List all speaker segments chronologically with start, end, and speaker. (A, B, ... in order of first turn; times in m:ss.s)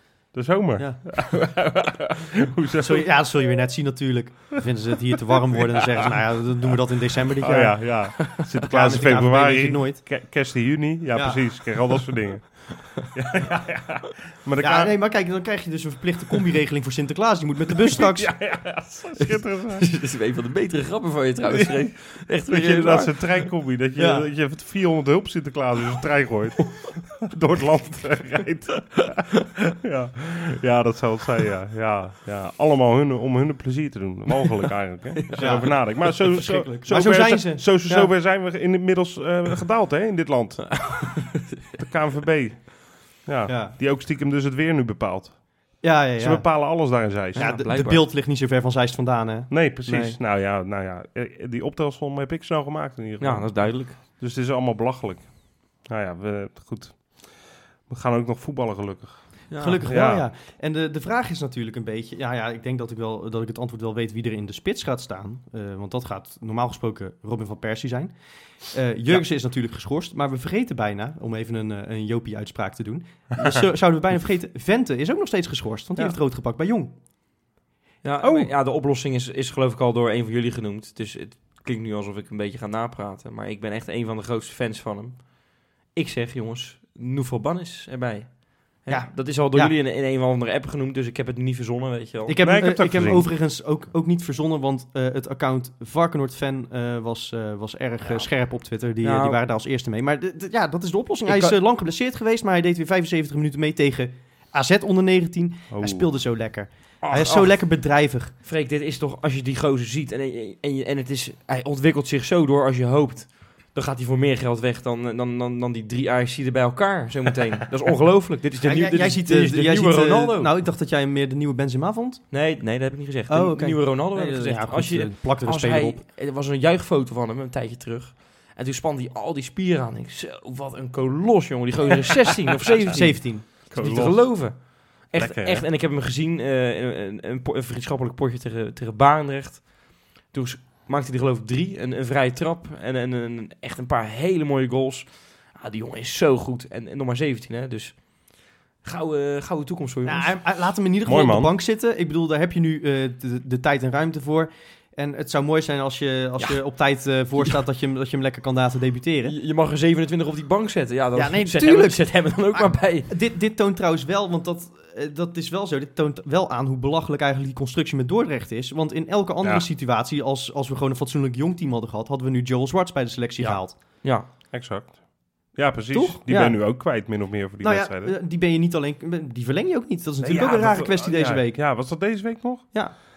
0:00.3-0:03.1 A
0:00.8-0:01.3 B
0:02.8-0:10.1 B
0:07.4-0:14.9 A
0:11.1-0:11.5 B
0:14.6-0:18.6 B
0:17.9-0:19.9 A
0:19.2-0:23.2 C
0:21.5-0:45.6 A
0:24.0-0:24.3 B
0:35.2-0:35.5 C
0:35.4-0:38.1 B
0:40.8-0:41.6 C
0:43.4-0:43.8 B
0:45.8-0:50.2 B
0:46.2-0:47.6 A
0:47.3-0:48.0 C
0:49.5-0:55.3 A
0:53.2-0:54.0 C
0:55.8-0:57.3 A
0:57.9-1:00.3 A
0:59.5-0:59.8 C
0:59.6-1:08.1 B
1:08.6-1:16.9 B
1:18.0-1:25.3 C
1:18.2-1:18.5 A
1:25.9-1:32.3 C
1:28.9-1:29.7 B
1:32.3-1:48.3 B
1:32.4-1:33.3 A
1:39.0-1:39.4 C
1:41.2-1:41.6 C
1:45.7-1:46.0 A
1:47.0-1:47.6 C
1:48.4-2:00.5 C
1:58.6-2:02.3 B
2:02.3-2:28.0 C
2:03.3-2:06.0 B
2:12.9-2:13.7 B
2:13.5-2:14.5 A
2:15.1-2:15.6 A
2:28.8-2:30.3 C
2:30.0-2:39.3 B
2:31.0-2:31.5 A
2:39.2-2:43.1 C
2:41.2-2:53.8 B
2:53.4-2:54.3 C
2:54.5-2:55.0 A
2:55.5-2:58.1 A
2:55.9-2:56.8 B
2:57.6-3:01.6 B
3:00.2-3:02.7 A